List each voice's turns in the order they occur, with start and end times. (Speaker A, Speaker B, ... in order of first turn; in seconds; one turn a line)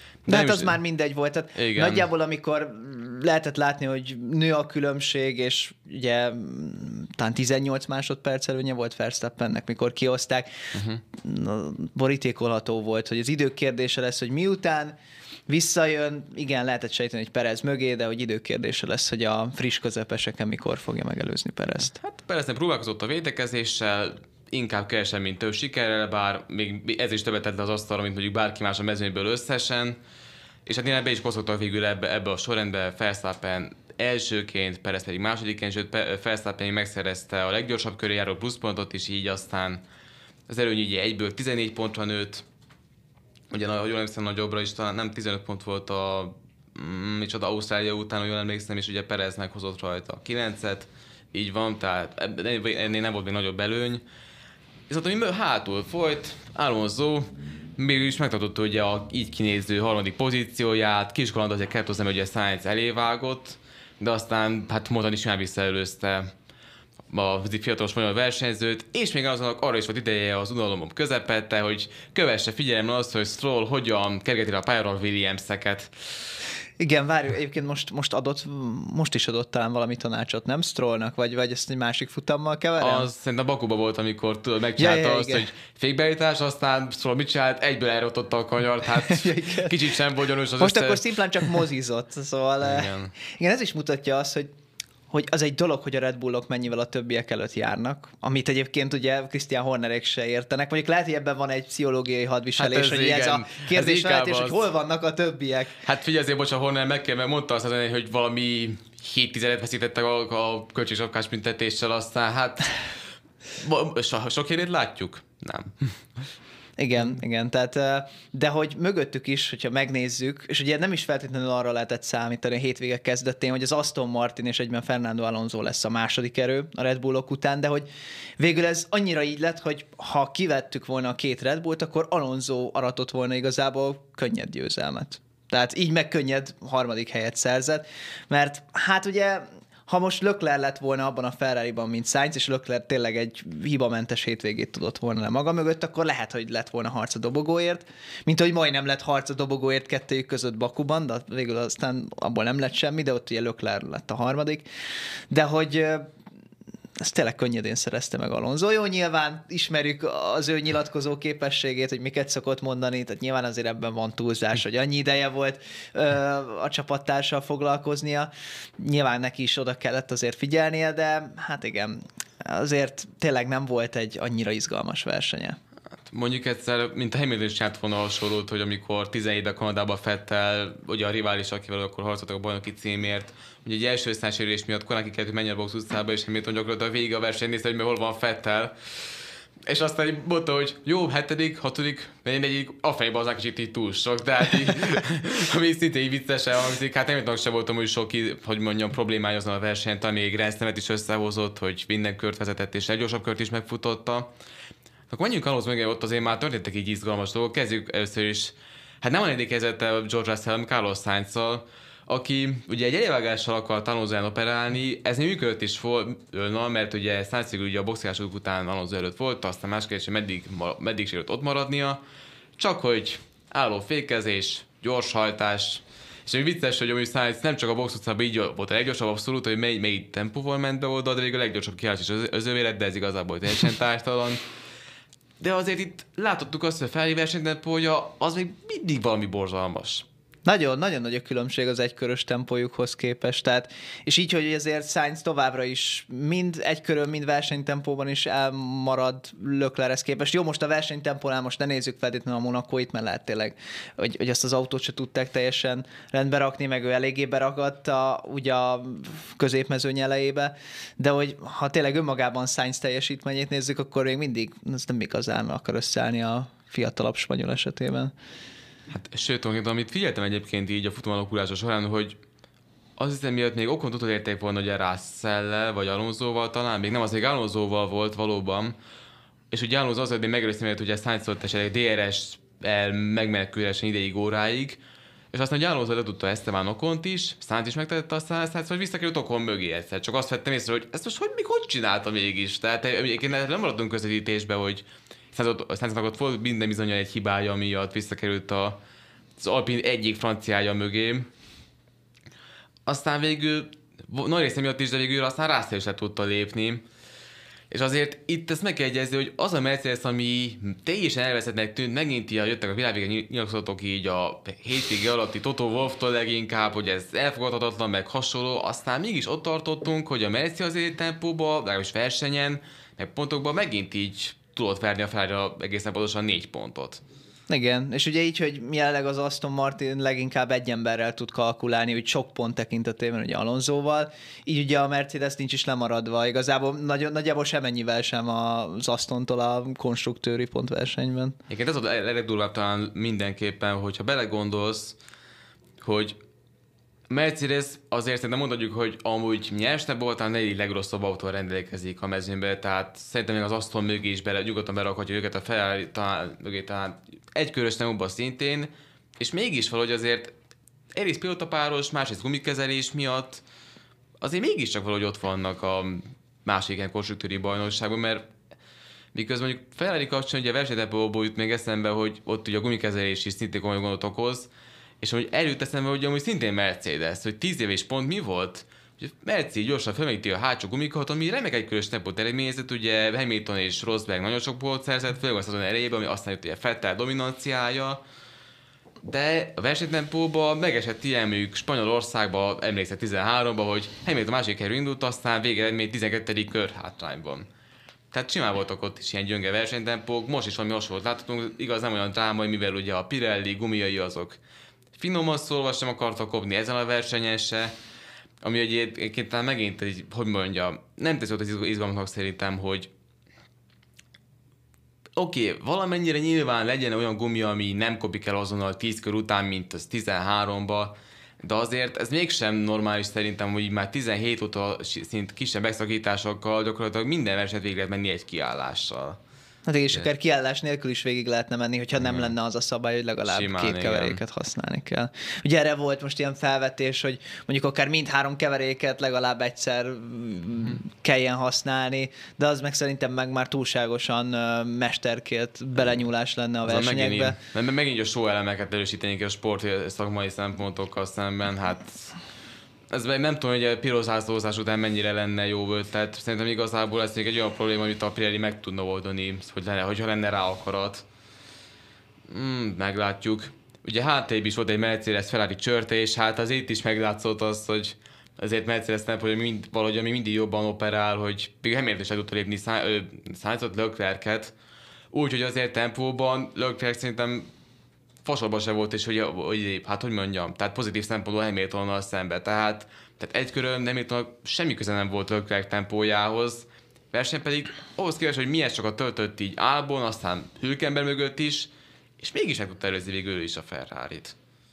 Speaker A: 0.2-0.8
Speaker B: 0.3-10.5
Speaker A: 1.6-2.1
Speaker A: 10.7-11.0
Speaker B: 11.2-14.9
Speaker B: 15.5-21.9
Speaker A: 21.9-30.0
Speaker A: 30.6-39.8
Speaker A: 40.5-42.4
Speaker A: 43.5-54.0
Speaker A: 54.9-66.3
Speaker A: 67.1-75.9
Speaker B: 76.8-83.1
Speaker A: 82.8-91.0
Speaker B: 84.8-85.5
Speaker B: 89.0-89.8
Speaker B: 90.6-94.5
Speaker A: 92.6-93.1
Speaker B: 95.1-105.8
Speaker A: 102.6-104.6
Speaker A: 105.8-112.8
Speaker A: 113.5-116.2
Speaker B: 116.8-127.9
Speaker B: 128.4-154.6
Speaker B: 155.3-156.1
Speaker B: 157.0-175.6
Speaker A: 176.1-188.7
Speaker A: 189.7-204.3
Speaker A: 205.1-222.0
Speaker A: 222.6-234.4
Speaker A: 235.4-240.0
Speaker B: 240.4-268.1
Speaker A: 268.9-272.2
Speaker A: 273.0-278.8
Speaker A: 279.5-284.8
Speaker A: 285.3-298.8
Speaker A: 299.4-301.3
Speaker A: 302.9-306.8
Speaker A: 307.7-327.0
Speaker B: 327.5-341.4
Speaker A: 341.5-345.0
Speaker A: 345.8-346.2
Speaker A: 347.1-360.3
Speaker A: 360.9-363.4
Speaker A: 364.2-368.3
Speaker A: 369.1-374.5
Speaker A: 375.0-388.0
Speaker A: 389.0-397.5
Speaker A: 398.1-404.4
Speaker A: 404.9-407.7
Speaker A: 408.4-412.9
Speaker A: 415.1-429.2
Speaker B: 429.6-447.4
Speaker A: 432.0-432.3
Speaker A: 433.2-434.2
Speaker A: 446.6-452.2
Speaker A: 452.9-461.1
Speaker A: 462.3-474.5
Speaker A: 475.1-477.5
Speaker A: 478.2-494.3